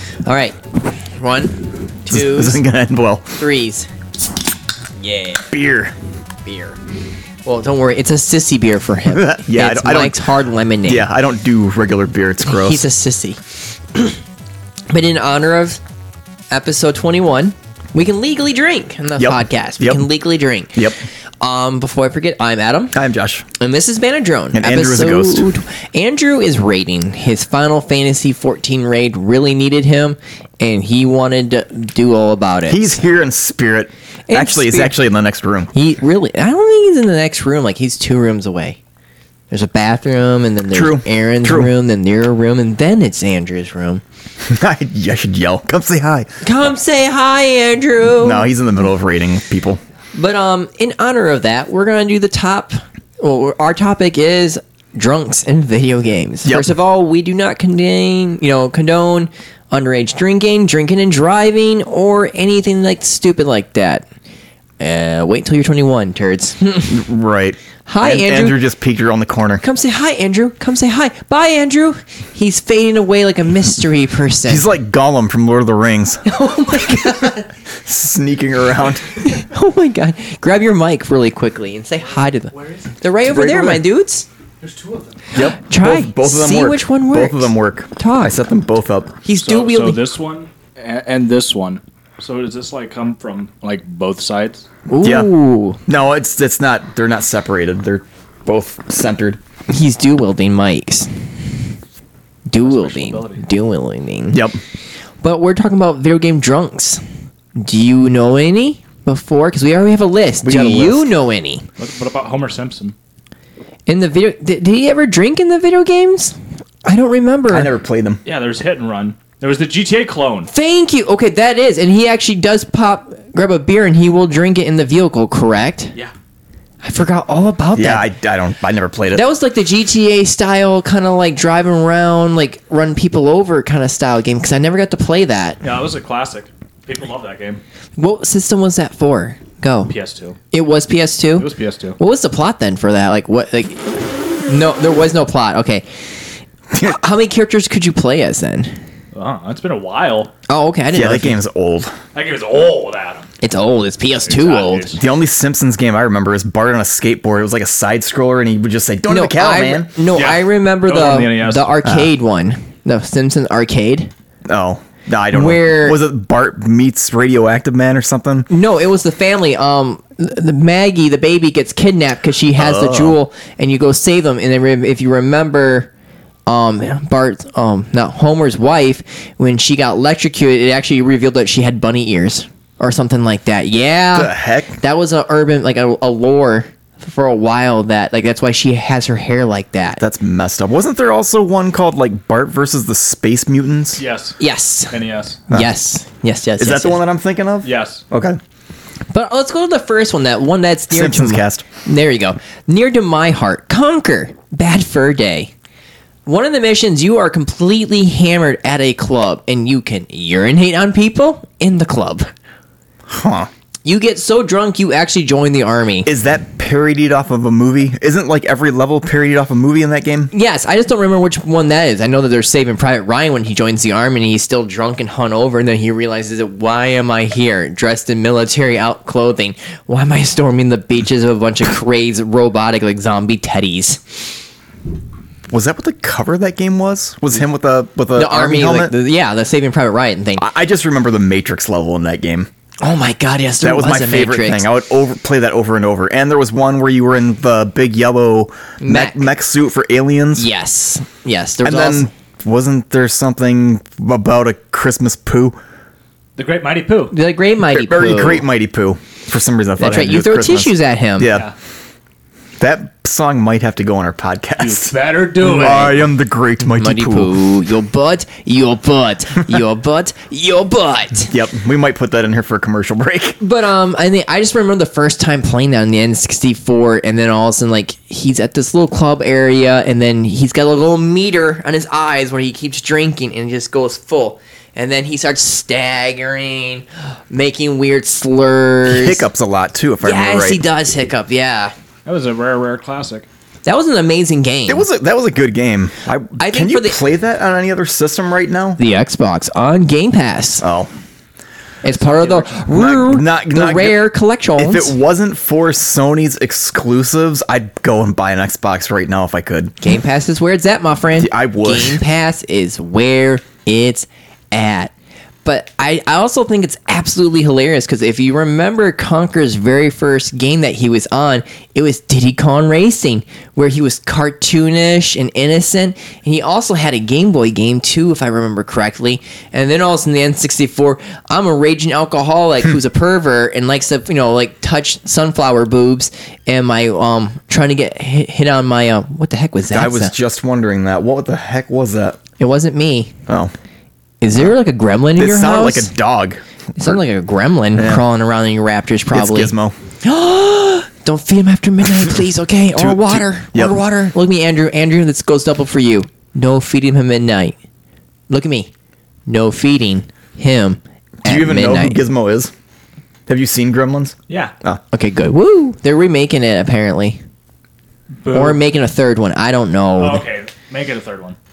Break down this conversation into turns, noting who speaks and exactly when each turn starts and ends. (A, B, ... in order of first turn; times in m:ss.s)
0:00.2-0:02.6 A
0:02.1-0:03.4 B
0:03.3-0:03.9 A
0:05.0-0:05.4 A
0:05.5-0:05.9 B
0:06.4-0:06.8 A
0:07.4-0:11.1 A
0:09.1-0:10.3 B
0:10.9-0:12.8 B
0:12.4-0:13.4 A
0:13.9-0:14.2 A
0:14.9-0:15.8 A
0:16.5-0:20.8 A
0:19.2-0:20.0 B
0:21.4-0:23.0 A
0:22.9-0:23.4 B
0:23.6-0:32.8 A
0:24.5-0:25.4 B
0:32.7-0:35.7 B
0:34.3-0:34.9 A
0:35.7-0:38.8 A
0:39.5-0:44.0 A
0:40.7-0:41.7 B
0:44.4-0:46.7 B
0:46.4-0:48.4 A
0:48.2-0:49.8 B
0:50.1-1:04.0 A
0:56.4-0:56.7 B
1:04.8-1:07.0 A
1:06.9-1:09.6 B
1:07.8-1:08.6 A
1:09.6-1:14.6 A
1:14.5-1:16.2 B
1:16.2-1:17.5 A
1:17.8-1:19.0 B
1:19.2-1:24.2 A
1:22.6-1:22.9 C
1:23.2-1:23.8 B
1:24.6-1:25.2 C
1:25.3-1:29.1 B
1:25.4-1:28.4 A
1:29.2-1:30.0 A
1:29.4-1:34.6 C
1:34.9-1:35.8 A
1:35.0-1:35.3 B
1:35.9-1:39.4 B
1:39.7-1:41.1 A
1:42.5-1:44.4 A
1:42.6-1:43.4 C
1:44.3-1:44.6 B
1:45.2-1:47.0 A
1:47.6-1:51.6 A
1:50.4-1:51.1 B
1:51.8-1:52.9 C
1:53.9-1:57.7 A
1:57.5-1:58.2 B
1:58.2-2:00.5 C
2:00.5-2:05.9 A
2:06.8-2:08.1 A
2:07.7-2:09.2 B
2:09.1-2:15.6 A
2:15.6-2:17.6 C
2:18.0-2:19.9 A
2:19.9-2:20.4 C
2:20.5-2:23.9 A
2:21.4-2:22.0 C
2:24.4-2:25.8 A
2:26.8-2:28.7 A
2:29.1-2:30.3 C
2:30.5-2:31.4 A
2:30.9-2:31.9 B
2:32.1-2:33.3 C
2:33.4-2:35.0 A
2:34.2-2:35.0 C
2:35.0-2:40.0 B
2:39.1-2:44.1 A
2:40.1-2:41.7 C
2:44.5-2:48.5 B
2:45.3-2:46.0 A
2:48.5-2:55.9 A
2:52.6-2:53.2 B
2:56.5-3:10.0 A
3:04.1-3:04.8 B
3:10.0-3:14.0 B
3:14.0-3:14.4 C
3:14.4-3:15.0 A
3:14.9-3:15.4 C
3:15.5-3:17.0 A
3:16.6-3:18.4 B
3:17.6-3:18.0 C
3:19.1-3:25.5 A
3:20.9-3:21.6 B
3:26.2-3:32.3 A
3:33.1-3:33.5 B
3:33.8-3:36.1 A
3:36.0-3:40.3 B
3:40.3-3:54.2 A
3:55.5-3:58.9 B
3:58.1-4:00.4 A
4:00.4-4:02.5 B
4:02.8-4:04.6 A
4:03.6-4:10.5 B
4:08.8-4:09.3 A
4:10.4-4:12.1 A
4:11.6-4:15.6 B
4:16.4-4:17.1 C
4:17.1-4:18.4 A
4:17.7-4:21.5 B
4:19.8-4:21.3 A
4:22.6-4:27.4 B
4:24.6-4:26.0 C
4:26.6-4:31.3 A
4:31.3-4:33.4 B
4:33.4-4:49.2 A
4:48.8-4:50.6 B
4:50.0-4:51.7 A
4:52.0-4:53.3 C
4:53.6-4:54.8 A
4:54.7-4:58.8 B
4:56.4-4:57.0 A
4:58.8-5:00.6 A
5:00.6-5:00.9 B
5:01.8-5:04.9 A
5:02.1-5:02.5 C
5:02.7-5:04.0 B
5:04.6-5:09.7 B
5:09.8-5:14.9 A
5:11.2-5:12.0 B
5:15.4-5:40.1 A
5:39.7-5:42.2 B
5:42.4-5:43.1 A
5:43.3-5:43.5 B
5:44.2-5:45.9 A
5:45.2-5:47.0 B
5:46.8-5:57.6 A
5:47.7-5:48.0 B
5:49.1-5:49.7 B
5:52.8-5:53.8 B
5:58.3-5:58.7 A
5:59.3-6:02.0 A
6:01.2-6:02.5 B
6:03.3-6:04.8 B
6:04.9-6:07.2 A
6:08.2-6:08.6 C
6:08.3-6:10.2 A
6:10.0-6:11.4 C